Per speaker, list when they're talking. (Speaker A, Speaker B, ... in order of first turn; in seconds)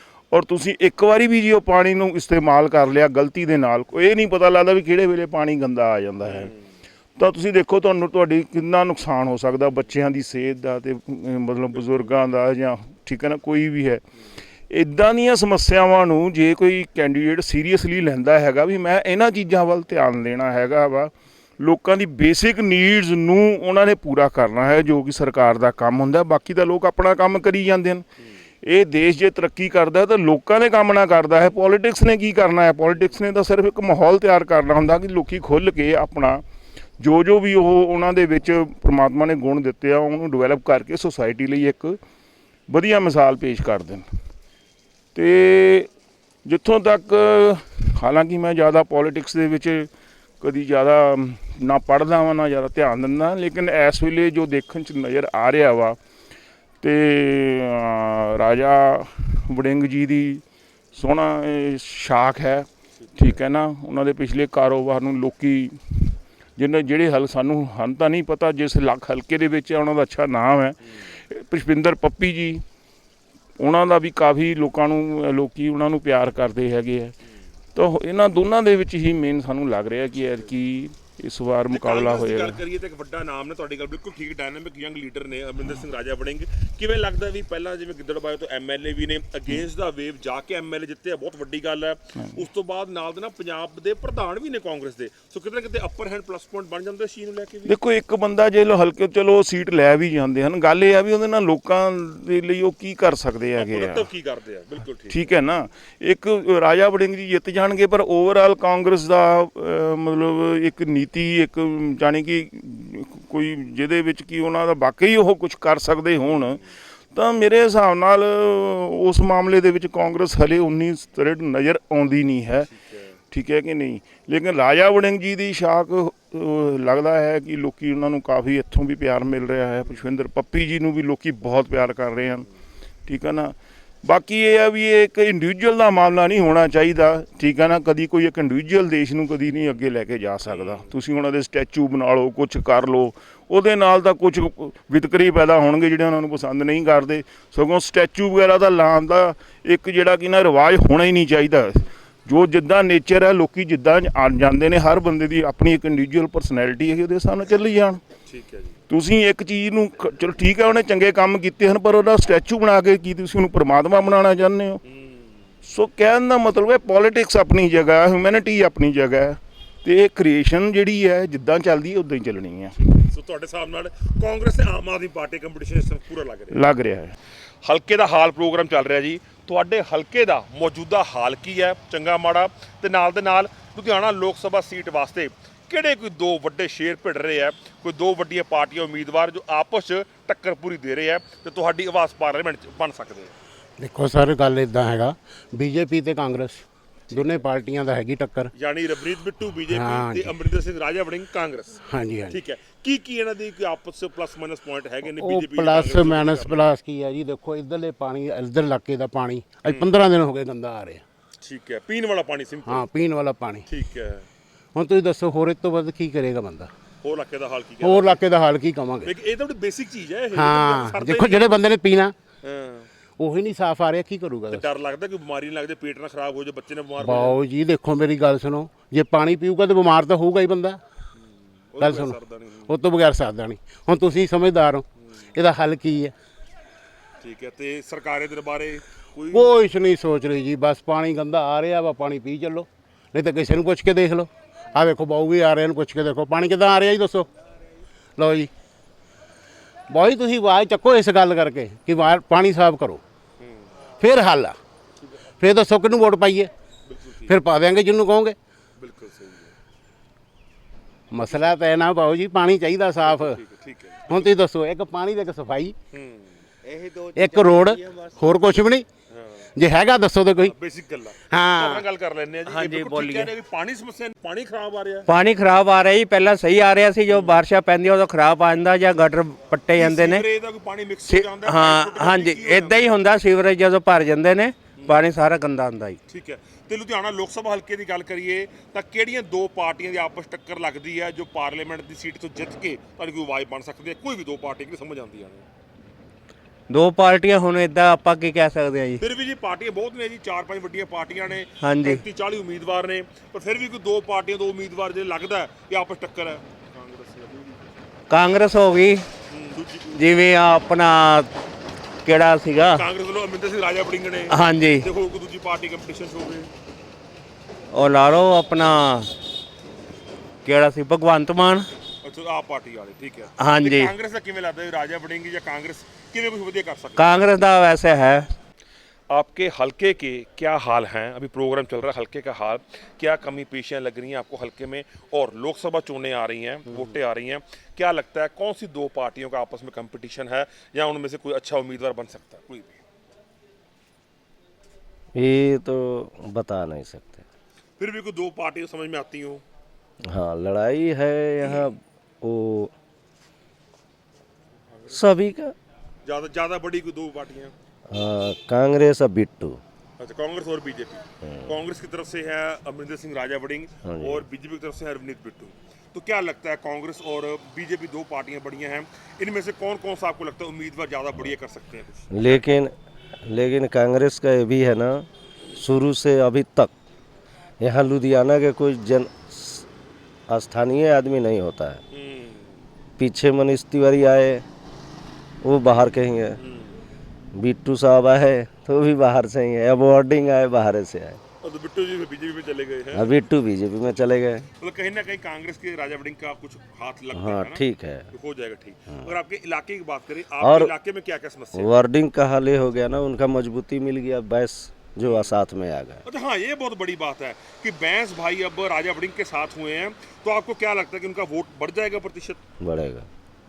Speaker A: 0.3-6.5, 7.2-14.0, 14.7-28.0, 28.6-36.4, 37.0-42.0, 42.7-44.0, 45.1-45.9, 46.5-49.9, 50.4-56.0, 56.8-60.4, 61.0-72.6, 73.6-77.1, 77.8-82.6, 97.7-104.1, 105.1-116.6, 117.1-122.7, 123.3-132.5, 133.1-158.0, 158.9-164.8, 165.7-172.7, 176.5-177.2
Speaker B: 6.2-6.5, 80.2-80.5, 81.7-97.8, 103.6-105.3, 116.3-116.7, 122.7-123.2, 140.5-140.9, 158.3-158.8, 164.9-165.4, 172.8-176.6, 177.6-193.3, 197.1-197.4, 198.5-206.7, 209.6-210.0, 211.4-212.9, 213.7-214.3, 217.0-218.2, 219.0-221.6, 222.4-222.9, 224.5-227.4, 231.2-232.8, 237.2-239.6, 253.4-253.7, 256.9-257.4, 258.8-259.5, 263.0-264.3, 265.9-266.5, 269.1-269.5, 270.4-275.1, 277.1-277.4, 279.8-282.9, 284.8-285.1, 286.1-295.4, 299.0-307.7, 309.3-310.0, 312.7-316.5, 322.0-327.1, 329.1-342.8, 347.8-349.4, 351.4-351.7, 356.0-357.5, 360.0-372.4, 381.9-382.6, 386.4-386.8, 391.4-393.2, 394.6-401.8, 405.0-405.4, 406.1-412.4
Speaker C: 193.8-198.5, 199.7-200.3, 201.9-202.4, 205.1-211.0, 212.7-213.7, 214.8-216.7, 217.8-219.1, 220.3-222.2, 223.2-224.7, 227.0-230.8, 231.8-236.1, 239.3-247.3, 248.2-248.5, 249.9-253.0, 254.0-254.6, 255.4-256.5, 257.3-258.4, 261.1-263.4, 264.1-265.8, 267.1-268.9, 269.6-270.5, 271.3-271.8
Speaker D: 266.6-268.3, 272.5-273.3, 275.1-280.3, 281.1-286.0, 296.7-299.0, 301.6-302.0, 308.1-309.1, 309.9-311.3, 312.1-312.9, 314.3-314.9, 317.7-319.1, 320.4-321.7, 323.4-323.9, 327.0-328.3
Speaker E: 345.1-347.2, 350.1-352.7, 354.9-355.5, 357.9-359.6, 361.2-361.5, 363.8-364.2, 372.1-372.7, 373.3-376.7, 377.6-379.7, 380.3-381.8, 383.0-384.5, 385.4-386.4, 387.4-391.2, 392.9-394.4, 397.1-398.1, 398.9-399.1, 400.4-400.7, 401.6-406.0, 412.6-413.1